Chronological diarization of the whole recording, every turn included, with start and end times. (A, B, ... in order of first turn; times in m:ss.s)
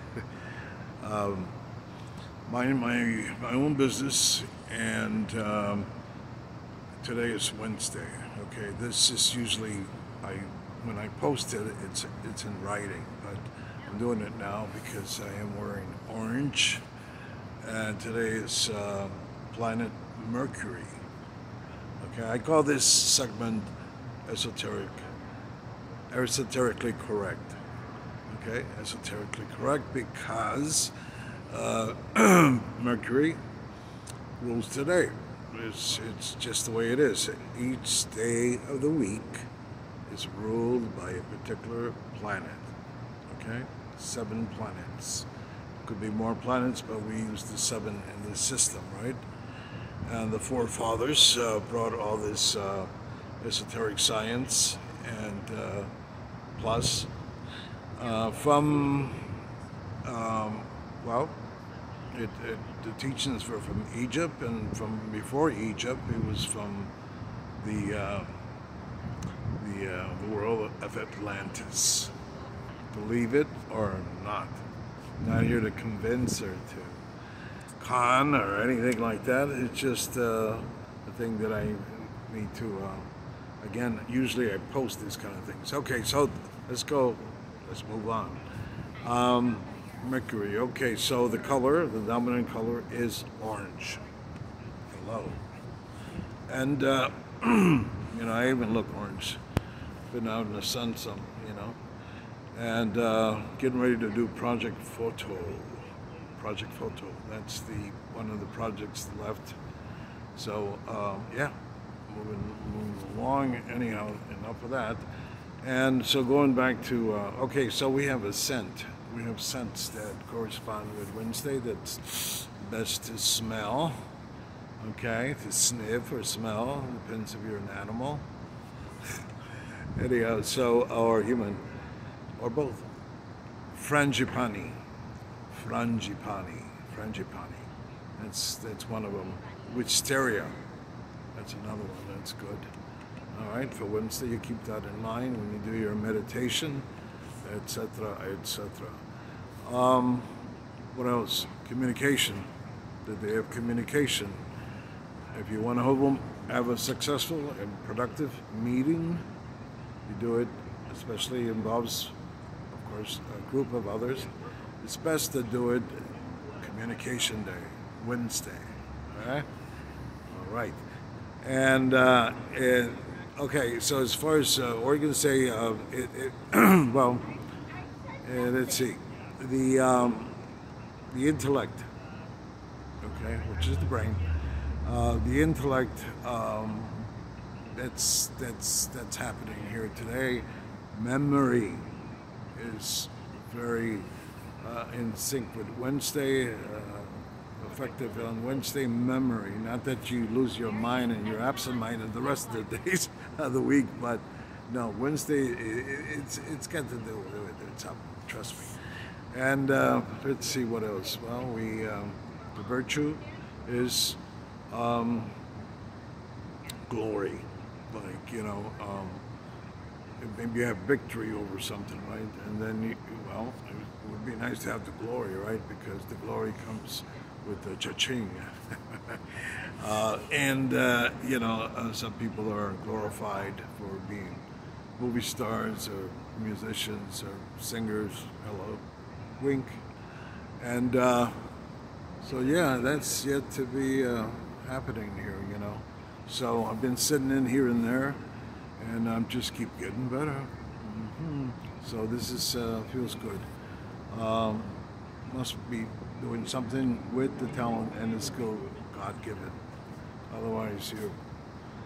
0:01.0-0:01.5 A
0:02.4-0:05.9 A
0:07.0-0:16.8 A
0:17.6-0:21.0 A
0:22.0-0:23.7 A
0:24.3-0:25.0 A
0:26.1-0:27.6 A
0:28.3-0:30.9 A
0:31.5-0:33.4 A
0:34.4-0:39.5 A
0:40.1-0:42.7 A
0:43.3-0:45.3 A
0:45.8-0:49.2 A
0:50.0-0:52.9 A
0:53.4-0:55.9 A
0:56.6-0:57.1 A
0:58.0-0:59.4 A
1:00.0-1:01.4 A
1:02.1-1:06.9 A
1:07.6-1:08.3 A
1:09.6-1:12.1 A
1:12.9-1:14.6 A
1:15.2-1:17.0 A
1:17.8-1:23.1 A
1:23.6-1:28.4 A
1:29.0-1:34.0 A
1:34.9-1:35.4 A
1:36.5-1:39.4 A
1:40.1-1:41.8 A
1:42.5-1:45.8 A
1:46.4-1:49.6 A
1:50.3-1:51.5 A
1:52.1-1:55.0 A
1:55.6-2:04.0 A
2:04.8-2:08.2 A
2:09.9-2:11.6 A
2:12.4-2:12.8 A
2:13.7-2:14.7 A
2:15.5-2:17.6 A
2:18.2-2:20.5 A
2:21.3-2:22.7 A
2:23.3-2:26.8 A
2:27.4-2:29.0 A
2:29.6-2:30.3 A
2:30.9-2:32.4 A
2:33.0-2:34.4 A
2:35.3-2:39.2 A
2:40.0-2:42.1 A
2:42.7-2:44.3 A
2:44.8-2:49.5 A
2:50.3-2:50.8 A
2:51.4-2:57.3 A
2:58.2-3:00.4 A
3:01.1-3:01.9 A
3:03.0-3:04.2 A
3:04.8-3:07.0 A
3:07.8-3:11.8 A
3:12.5-3:14.1 A
3:14.6-3:28.7 A
3:29.3-3:34.2 A
3:34.7-3:35.3 A
3:36.9-3:39.2 A
3:40.2-3:54.4 A
3:55.0-3:58.8 A
3:59.4-3:59.8 A
4:00.6-4:01.4 A
4:02.2-4:08.2 A
4:08.8-4:13.4 A
4:14.1-4:14.8 A
4:15.3-4:19.6 A
4:20.3-4:21.1 A